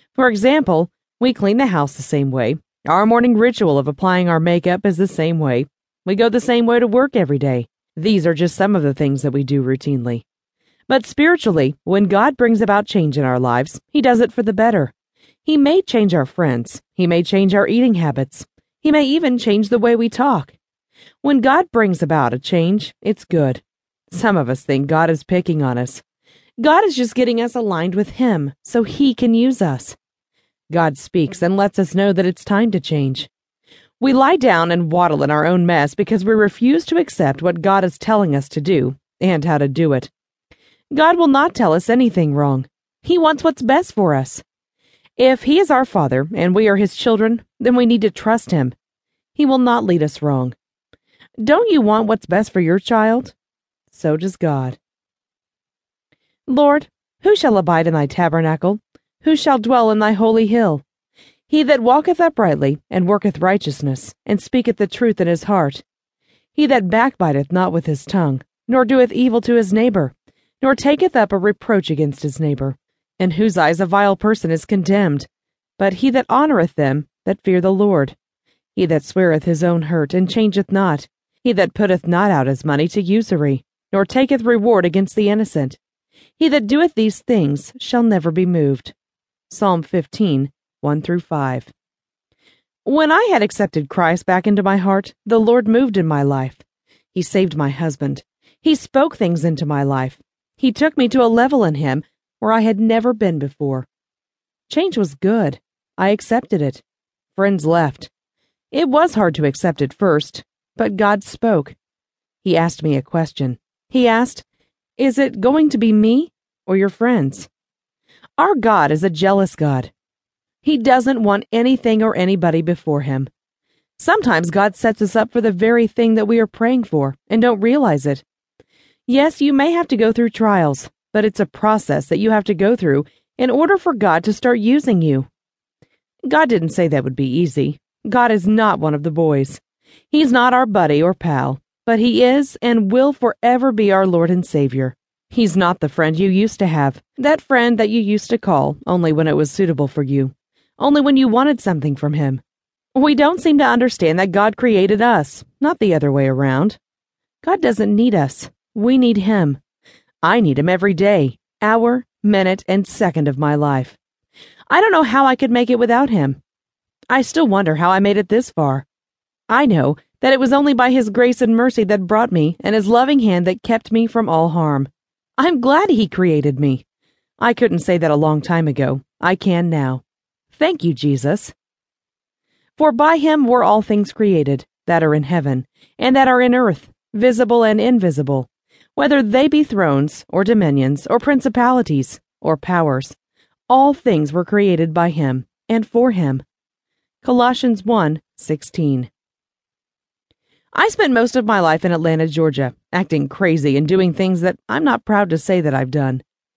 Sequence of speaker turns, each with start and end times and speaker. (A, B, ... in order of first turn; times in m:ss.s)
0:00.2-0:10.2 A
0:10.9-0:14.9 A
0:15.4-0:20.6 A
0:21.2-0:26.0 A
0:26.6-0:30.0 A
0:30.7-0:33.3 A
0:34.0-0:40.1 A
0:40.9-0:44.4 A
0:45.2-0:48.8 A
0:49.4-0:50.6 A
0:51.4-0:53.4 A
0:53.9-0:54.8 A
0:56.5-1:00.8 A
1:01.5-1:05.8 A
1:06.6-1:18.2 A
1:18.8-1:25.8 A
1:26.4-1:28.9 A
1:29.5-1:31.7 A
1:32.8-1:36.6 A
1:37.1-1:43.9 A
1:44.7-1:46.8 A
1:47.4-1:48.1 A
1:48.7-1:51.8 A
1:52.4-1:54.4 A
1:55.0-1:57.5 A
1:58.4-1:59.9 A
2:00.6-2:03.3 A
2:04.0-2:08.2 A
2:09.1-2:15.3 A
2:16.2-2:32.4 A
2:33.0-2:36.8 A
2:37.4-2:39.6 A
2:40.2-2:44.0 A
2:44.7-2:46.4 A
2:47.1-2:48.9 A
2:49.5-2:56.8 A
2:57.4-3:00.0 A
3:00.5-3:01.5 A
3:02.8-3:13.2 A
3:13.7-3:16.4 A
3:17.2-3:19.1 A
3:20.7-3:26.2 A